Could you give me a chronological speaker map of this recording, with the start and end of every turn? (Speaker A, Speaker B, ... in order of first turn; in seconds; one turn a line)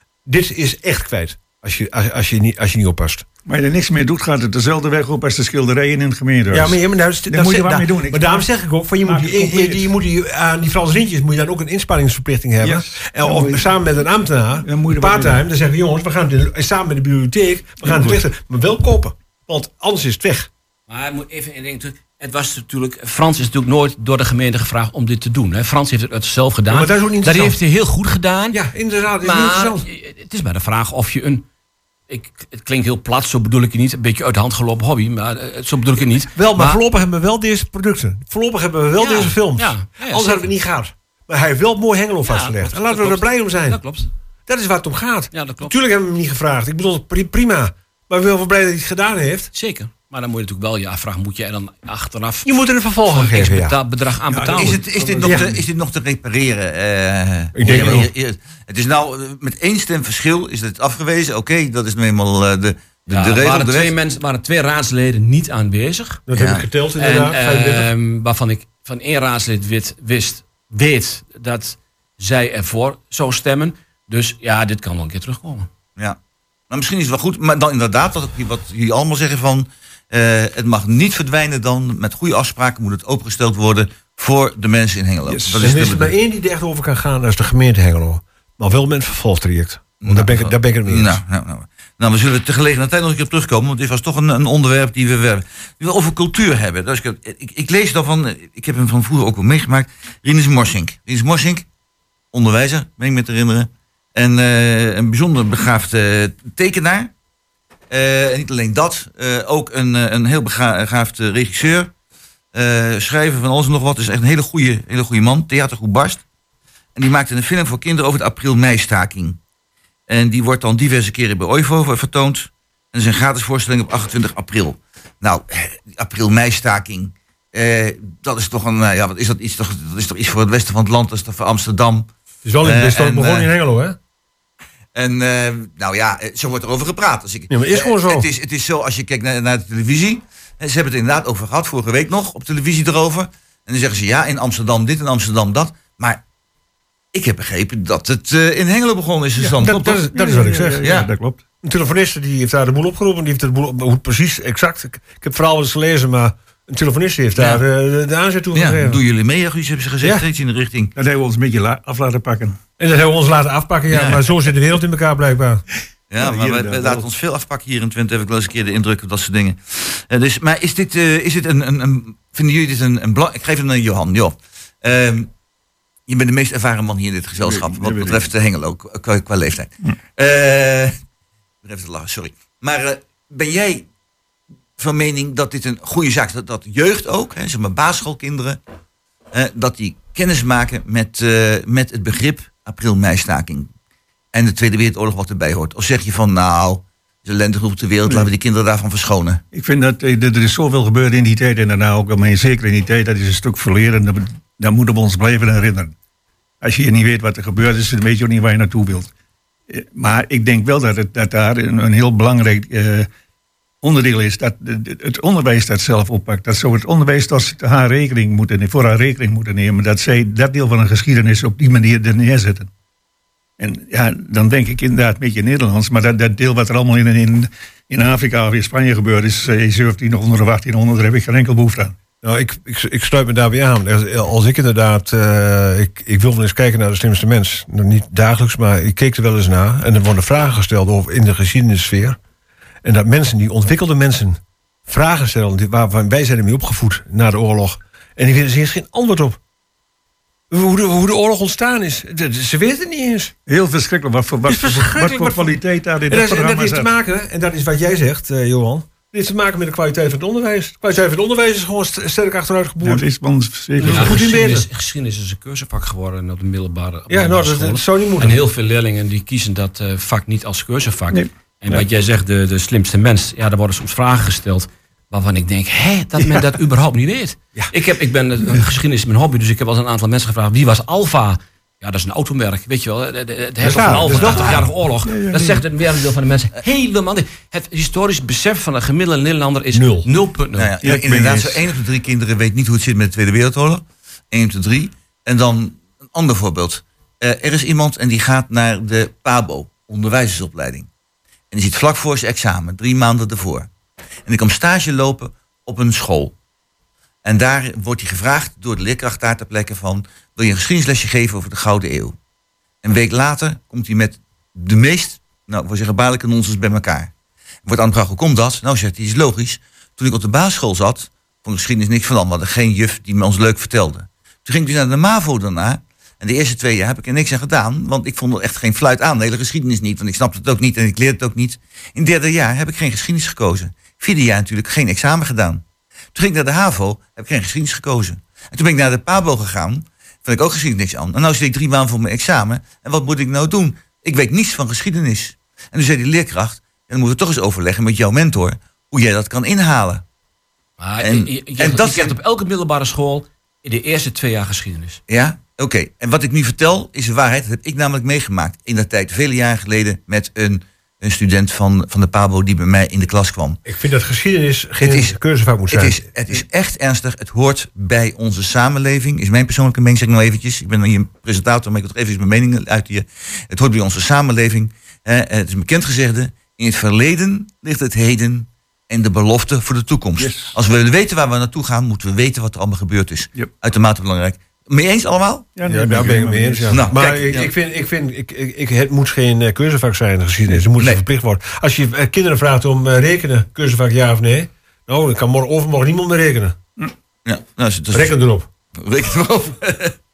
Speaker A: 0.2-3.2
Speaker B: 3.5-6.8
Speaker A: 6.5-20.5
Speaker B: 7.3-8.4
Speaker B: 9.0-9.9
Speaker B: 12.6-13.7
Speaker B: 14.6-15.4
Speaker B: 17.8-18.2
Speaker C: 20.9-28.6
Speaker A: 26.7-27.6
Speaker A: 28.5-29.9
Speaker C: 29.2-31.4
Speaker C: 32.1-36.8
Speaker A: 36.3-43.8
Speaker C: 39.0-40.5
Speaker C: 42.2-44.1
Speaker A: 44.5-49.5
Speaker C: 45.3-45.7
Speaker C: 49.5-55.4
Speaker A: 52.4-53.8
Speaker D: 54.5-63.9
Speaker A: 55.2-55.5
Speaker A: 57.5-58.1
Speaker C: 63.1-66.2
Speaker A: 66.3-67.9
Speaker D: 66.3-66.7
Speaker C: 67.0-75.7
Speaker D: 76.7-86.1
Speaker B: 85.2-85.9
Speaker A: 85.6-91.2
Speaker D: 90.0-101.7
Speaker D: 102.3-107.1
Speaker D: 107.9-111.9
Speaker D: 112.5-116.2
Speaker D: 117.0-119.4
Speaker D: 120.1-132.1
Speaker A: 132.4-134.0
Speaker D: 132.6-133.5
Speaker D: 134.9-146.2
Speaker A: 137.5-138.3
Speaker D: 147.1-150.1
Speaker B: 149.4-151.4
Speaker A: 149.6-150.9
Speaker D: 150.8-151.1
Speaker A: 151.6-159.0
Speaker D: 157.3-157.6
Speaker D: 158.5-160.9
Speaker B: 160.9-162.6
Speaker A: 162.8-165.6
Speaker D: 163.9-164.2
Speaker D: 166.1-175.3
Speaker B: 166.2-167.1
Speaker D: 176.1-180.9
Speaker B: 177.3-178.2
Speaker D: 181.6-183.9
Speaker D: 184.8-188.6
Speaker D: 189.3-193.7
Speaker D: 194.3-199.4
Speaker B: 199.5-205.9
Speaker B: 206.6-209.1
Speaker B: 209.7-213.1
Speaker B: 213.8-222.7
Speaker B: 223.6-231.9
Speaker A: 232.2-242.2
Speaker A: 242.8-249.4
Speaker A: 250.5-253.3
Speaker B: 253.5-256.9
Speaker A: 254.4-263.0
Speaker B: 262.8-264.4
Speaker A: 263.8-264.7
Speaker C: 263.8-290.7
Speaker A: 267.1-268.4
Speaker B: 271.1-271.8
Speaker A: 283.6-284.7
Speaker B: 283.6-285.6
Speaker A: 289.7-290.1
Speaker D: 290.6-300.9
Speaker B: 290.8-291.7
Speaker D: 301.5-303.7
Speaker D: 304.2-306.3
Speaker D: 307.2-312.1
Speaker D: 312.8-317.1
Speaker D: 317.6-335.6
Speaker D: 336.1-350.0
Speaker C: 350.8-355.0
Speaker D: 351.0-352.1
Speaker D: 355.1-363.6
Speaker A: 363.6-365.9
Speaker D: 364.8-365.1
Speaker D: 365.7-385.5
Speaker B: 380.2-380.5
Speaker B: 385.6-387.2
Speaker A: 385.6-396.6
Speaker D: 386.7-387.5
Speaker D: 397.2-398.1
Speaker A: 397.9-398.5
Speaker D: 398.8-399.9